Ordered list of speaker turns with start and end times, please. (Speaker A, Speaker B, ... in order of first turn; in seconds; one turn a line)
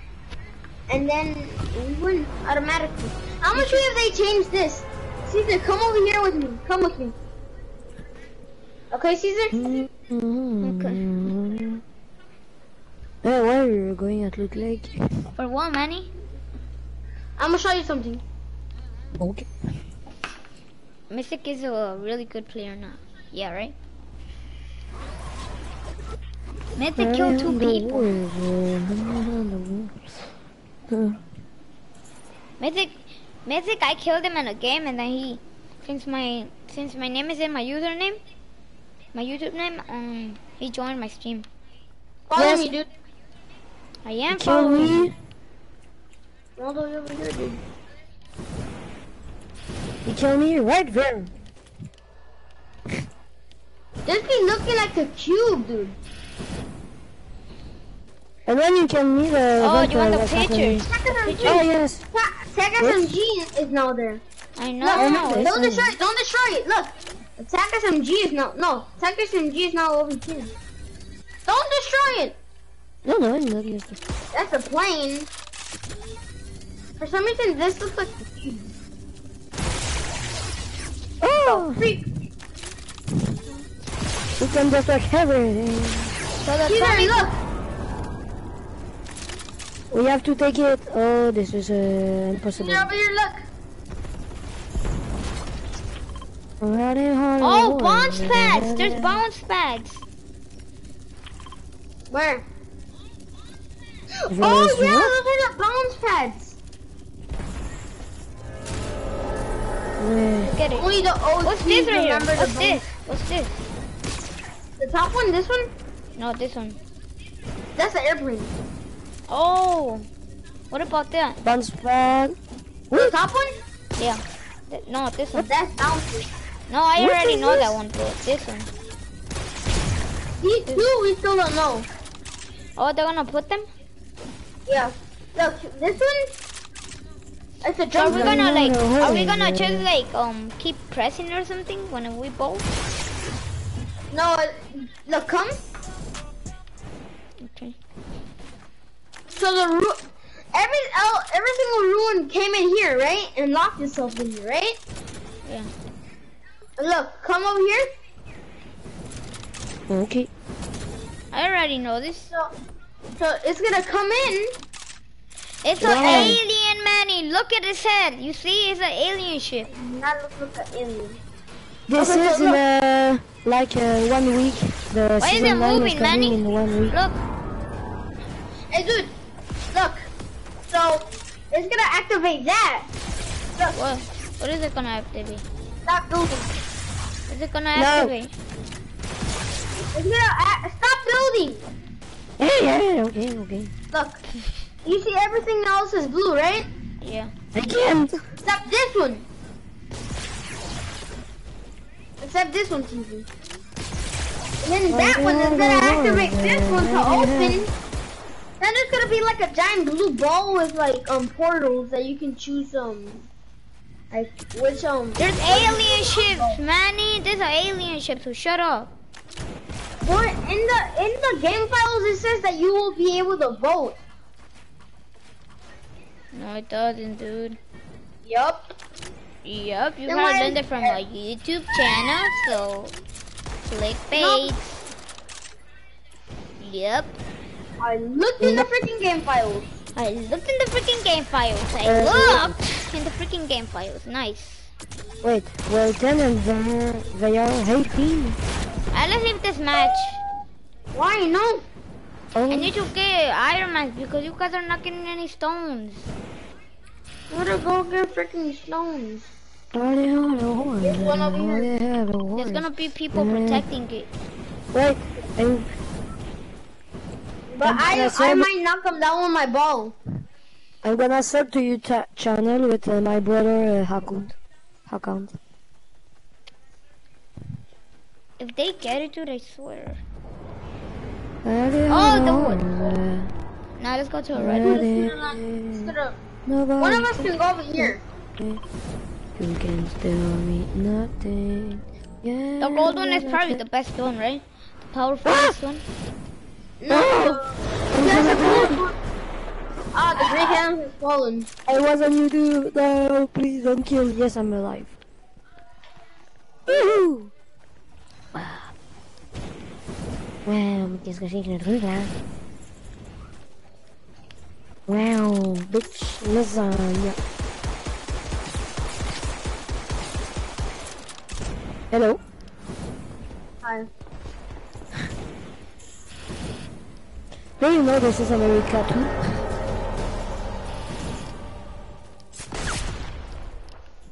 Speaker A: 0.9-7.2
Speaker B: 3.5-3.9
Speaker A: 8.9-9.8
Speaker C: 9.5-11.8
Speaker B: 10.6-11.0
Speaker C: 13.2-15.0
Speaker B: 15.4-16.1
Speaker A: 17.4-18.2
Speaker C: 19.2-19.5
Speaker B: 21.1-23.8
Speaker B: 26.8-28.1
Speaker C: 27.0-30.3
Speaker C: 30.9-31.2
Speaker B: 32.6-38.2
Speaker B: 39.1-41.5
Speaker A: 42.3-42.9
Speaker C: 42.4-42.7
Speaker B: 44.0-45.1
Speaker C: 44.3-45.1
Speaker A: 46.6-47.6
Speaker C: 50.0-51.3
Speaker A: 54.1-56.0
Speaker C: 58.5-62.0
Speaker B: 59.6-61.6
Speaker A: 60.9-64.2
Speaker C: 62.8-63.1
Speaker B: 64.6-65.5
Speaker A: 64.8-70.5
Speaker C: 64.9-66.0
Speaker A: 71.5-72.4
Speaker C: 73.0-74.0
Speaker A: 74.3-75.3
Speaker A: 77.0-78.7
Speaker C: 81.2-81.8
Speaker A: 81.5-82.1
Speaker C: 84.4-86.1
Speaker B: 86.4-87.2
Speaker A: 86.7-87.3
Speaker C: 89.9-92.9
Speaker A: 92.6-93.4
Speaker C: 96.6-99.2
Speaker B: 97.4-100.0
Speaker A: 102.1-102.5
Speaker A: 104.2-106.6
Speaker C: 104.3-105.2
Speaker C: 110.0-110.5
Speaker B: 110.4-110.9
Speaker A: 110.7-112.9
Speaker B: 111.4-113.6
Speaker A: 114.8-115.7
Speaker B: 116.2-116.8
Speaker A: 117.8-118.5
Speaker B: 119.3-120.1
Speaker B: 120.7-121.4
Speaker C: 121.4-122.4
Speaker A: 123.0-123.6
Speaker B: 124.0-125.5
Speaker A: 125.4-126.3
Speaker B: 126.7-128.7
Speaker C: 127.0-127.6
Speaker A: 130.4-131.9
Speaker B: 132.8-133.7
Speaker A: 134.7-136.3
Speaker A: 137.6-138.5
Speaker B: 137.9-142.7
Speaker C: 138.0-139.9
Speaker A: 144.1-145.6
Speaker B: 147.4-147.8
Speaker A: 149.3-150.0
Speaker A: 150.5-154.8
Speaker B: 155.4-155.7
Speaker A: 156.8-157.9
Speaker C: 159.9-160.3
Speaker B: 161.3-162.3
Speaker A: 163.2-164.6
Speaker B: 165.6-169.7
Speaker C: 165.8-166.4
Speaker A: 165.9-166.3
Speaker A: 169.7-171.2
Speaker C: 171.9-176.9
Speaker A: 172.0-172.6
Speaker B: 175.2-177.2
Speaker A: 178.7-179.1
Speaker A: 179.7-180.1
Speaker A: 180.7-182.9
Speaker B: 183.7-185.4
Speaker A: 185.9-186.5
Speaker B: 187.3-188.3
Speaker C: 187.8-188.1
Speaker A: 189.9-191.6
Speaker C: 192.4-193.7
Speaker A: 193.9-194.2
Speaker A: 194.8-196.7
Speaker B: 197.0-197.3
Speaker C: 197.5-198.2
Speaker A: 198.4-199.3
Speaker A: 202.2-203.3
Speaker A: 204.6-207.7
Speaker C: 204.9-207.7
Speaker A: 208.6-213.3
Speaker A: 214.1-216.6
Speaker B: 215.2-218.9
Speaker A: 220.0-224.0
Speaker B: 226.3-227.6
Speaker A: 228.2-228.7
Speaker B: 229.4-232.9
Speaker A: 230.1-231.0
Speaker B: 233.6-234.9
Speaker A: 234.2-234.5
Speaker B: 236.6-237.1
Speaker A: 237.8-239.8
Speaker C: 238.4-238.7
Speaker B: 240.0-244.7
Speaker C: 241.8-242.5
Speaker C: 245.2-248.4
Speaker B: 248.9-250.2
Speaker A: 250.9-251.7
Speaker C: 252.3-252.7
Speaker B: 252.5-256.1
Speaker A: 257.3-259.3
Speaker C: 259.7-263.7
Speaker A: 260.8-261.7
Speaker B: 262.4-264.1
Speaker C: 264.7-265.7
Speaker A: 267.5-269.9
Speaker C: 267.6-268.5
Speaker C: 270.8-274.4
Speaker C: 274.9-275.4
Speaker B: 278.4-280.0
Speaker C: 281.4-283.3
Speaker B: 281.9-283.0
Speaker B: 283.8-284.8
Speaker C: 284.4-285.9
Speaker A: 284.6-286.2
Speaker C: 286.5-288.6
Speaker A: 286.8-288.0
Speaker C: 289.4-293.6
Speaker B: 292.6-295.8
Speaker A: 296.8-299.0
Speaker C: 296.9-297.4
Speaker C: 297.9-298.8
Speaker A: 299.9-301.5
Speaker C: 301.7-304.9
Speaker C: 306.7-307.3
Speaker C: 308.4-308.7
Speaker C: 310.4-312.1
Speaker C: 314.9-317.2
Speaker C: 321.9-322.2
Speaker A: 323.6-323.9
Speaker C: 327.6-329.1